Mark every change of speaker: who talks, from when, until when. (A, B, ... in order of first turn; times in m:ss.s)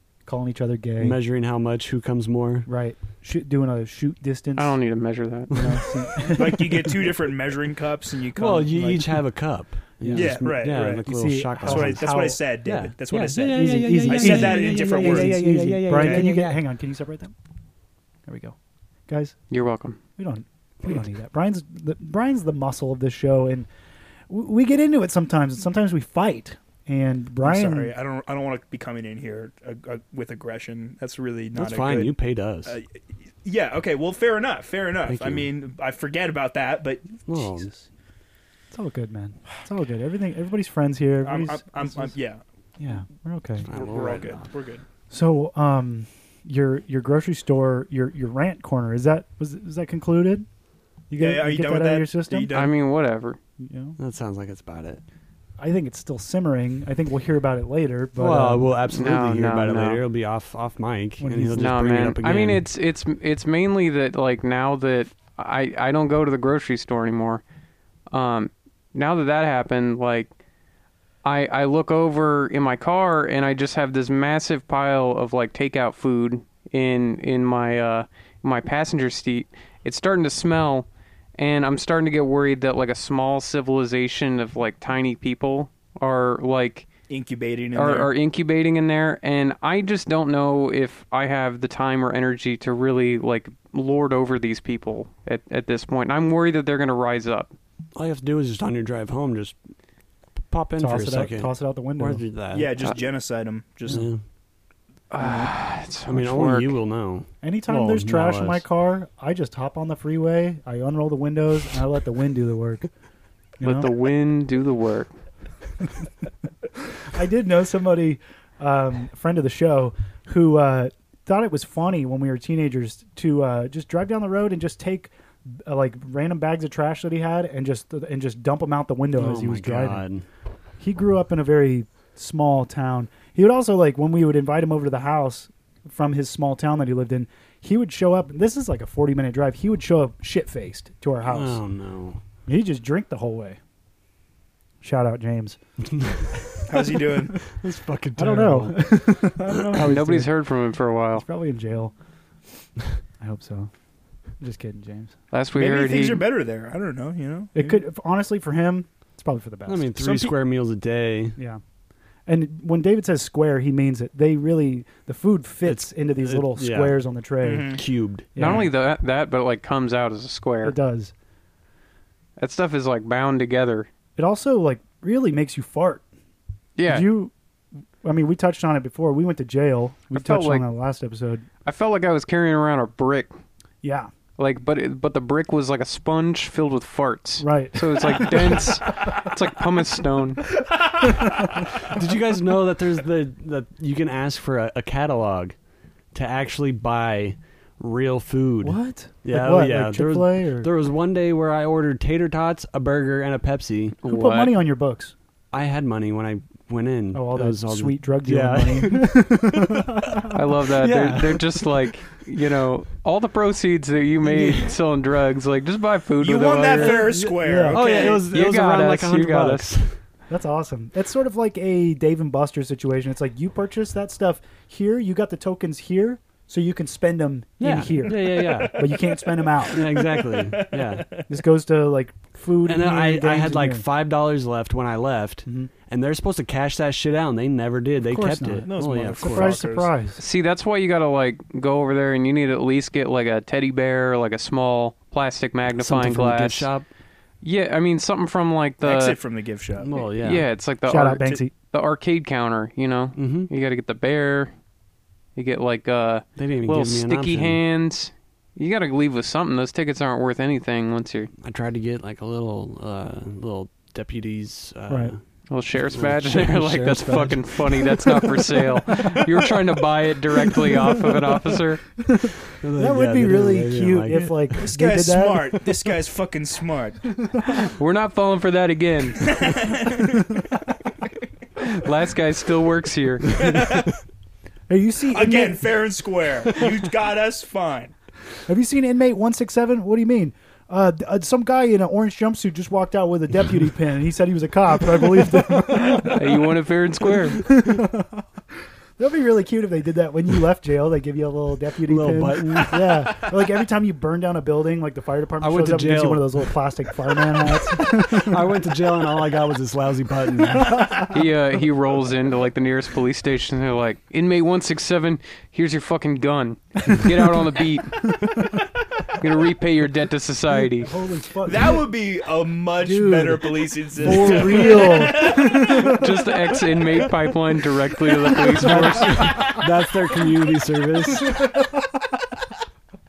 0:00.2-0:01.2 A
0:01.0-0:02.7 B
0:02.6-0:04.8 A
0:04.6-0:05.7 C
0:05.5-0:07.0 A
0:06.3-0:09.2 D
0:08.4-0:12.1 B
0:10.0-0:12.4 A
0:10.1-0:11.0 D
0:11.6-0:16.3 D
0:12.6-0:16.6 B
0:13.5-0:17.3 A
0:18.2-0:18.6 A
0:19.1-0:19.4 A
0:19.5-0:20.0 C
0:20.2-0:23.7 A
0:24.3-0:27.9 A
0:27.4-0:37.2 D
0:31.6-0:32.8 B
0:35.1-0:35.5 B
0:37.2-0:37.7 B
0:37.6-0:37.8 A
0:38.7-0:42.1 A
0:41.2-0:42.4 D
0:42.8-0:43.7 A
0:43.6-0:44.5 B
0:43.7-0:44.8 D
0:45.1-0:50.5 A
0:51.1-0:52.5 A
0:51.2-0:52.7 D
0:52.5-0:53.4 C
0:53.6-0:54.0 A
0:54.0-0:55.0 B
0:55.6-0:58.7 A
0:58.2-1:02.6 B
0:58.9-1:00.0 C
1:01.2-1:01.8 A
1:01.5-1:07.4 C
1:08.1-1:10.3 C
1:11.2-1:20.9 C
1:21.4-1:26.9 C
1:27.1-1:28.1 D
1:27.8-1:37.5 C
1:37.9-1:39.6 B
1:40.5-1:42.7 B
1:40.8-1:42.2 A
1:42.5-1:44.0 D
1:43.9-1:44.2 B
1:45.1-1:46.8 C
1:45.2-1:45.5 B
1:46.0-1:48.6 B
1:47.4-1:52.8 A
1:53.6-1:53.9 A
1:53.6-1:55.1 C
1:57.0-2:10.0 A
2:09.1-2:10.2 B
2:10.8-2:21.6 A
2:21.2-2:22.2 B
2:22.5-2:23.6 A
2:24.8-2:25.6 A
2:26.0-2:26.3 B
2:26.7-2:27.4 D
2:27.5-2:30.0 B
2:28.2-2:30.3 A
2:29.7-2:31.2 C
2:31.1-2:31.9 A
2:33.2-2:33.7 A
2:34.4-2:35.1 A
2:35.3-2:36.2 C
2:35.6-2:37.8 D
2:37.5-2:39.9 A
2:39.7-2:41.4 B
2:40.0-2:40.3 D
2:42.3-2:47.7 A
2:45.6-2:47.0 B
2:47.4-2:47.8 D
2:47.7-2:48.6 B
2:48.3-2:48.7 A
2:48.4-2:50.8 C
2:50.6-2:51.1 A
2:52.4-2:53.9 C
2:54.2-2:56.0 A
2:56.8-2:57.1 C
2:56.9-2:57.3 A
2:58.0-3:01.4 A
3:00.1-3:00.7 C
3:01.6-3:03.3 C
3:03.8-3:04.1 A
3:04.4-3:10.5 C
3:07.4-3:08.6 A
3:11.0-3:11.3 A
3:11.9-3:15.6 B
3:16.1-3:24.0 B
3:18.6-3:20.7 A
3:24.0-3:24.5 C
3:24.0-3:25.1 A
3:25.5-3:29.4 B
3:27.1-3:30.3 A
3:30.3-3:37.0 C
3:30.8-3:31.6 B
3:34.2-3:34.7 B
3:36.2-3:38.3 D
3:36.8-3:40.0 B
3:36.9-3:38.1 A
3:38.3-3:39.7 C
3:40.3-3:49.9 A
3:47.6-3:49.0 B
3:48.2-3:51.2 D
3:49.7-3:51.2 B
3:51.3-3:53.8 A
3:52.6-3:59.6 B
3:55.4-3:55.7 A
3:58.0-4:00.2 A
3:58.6-3:59.9 D
4:00.2-4:06.7 C
4:05.8-4:06.8 B
4:07.4-4:09.2 C
4:08.8-4:09.9 D
4:09.8-4:10.5 B
4:10.2-4:14.5 C
4:10.9-4:11.5 A
4:13.1-4:13.5 B
4:15.4-4:21.3 C
4:16.4-4:17.6 B
4:21.4-4:25.2 B
4:24.9-4:25.1 A
4:25.5-4:31.9 C
4:25.7-4:28.2 B
4:32.1-4:35.6 A
4:32.6-4:34.6 B
4:34.6-4:37.1 D
4:37.3-4:37.6 A
4:37.7-4:39.3 C
4:39.2-4:40.4 D
4:41.6-4:43.3 C
4:43.4-4:43.9 D
4:44.7-4:45.6 A
4:45.1-4:47.9 D
4:48.5-4:56.4 A
4:56.0-4:57.4 C
4:57.4-4:58.2 A
4:59.0-5:08.4 A
5:01.8-5:03.3 B
5:05.4-5:06.5 B
5:07.6-5:11.1 B
5:10.6-5:11.1 A
5:11.1-5:18.2 C
5:19.2-5:20.9 C
5:20.8-5:21.8 A
5:21.4-5:26.0 D
5:22.8-5:26.1 A
5:24.0-5:24.8 B
5:25.8-5:29.5 C
5:28.5-5:31.5 B
5:28.6-5:29.5 A
5:31.3-5:31.8 A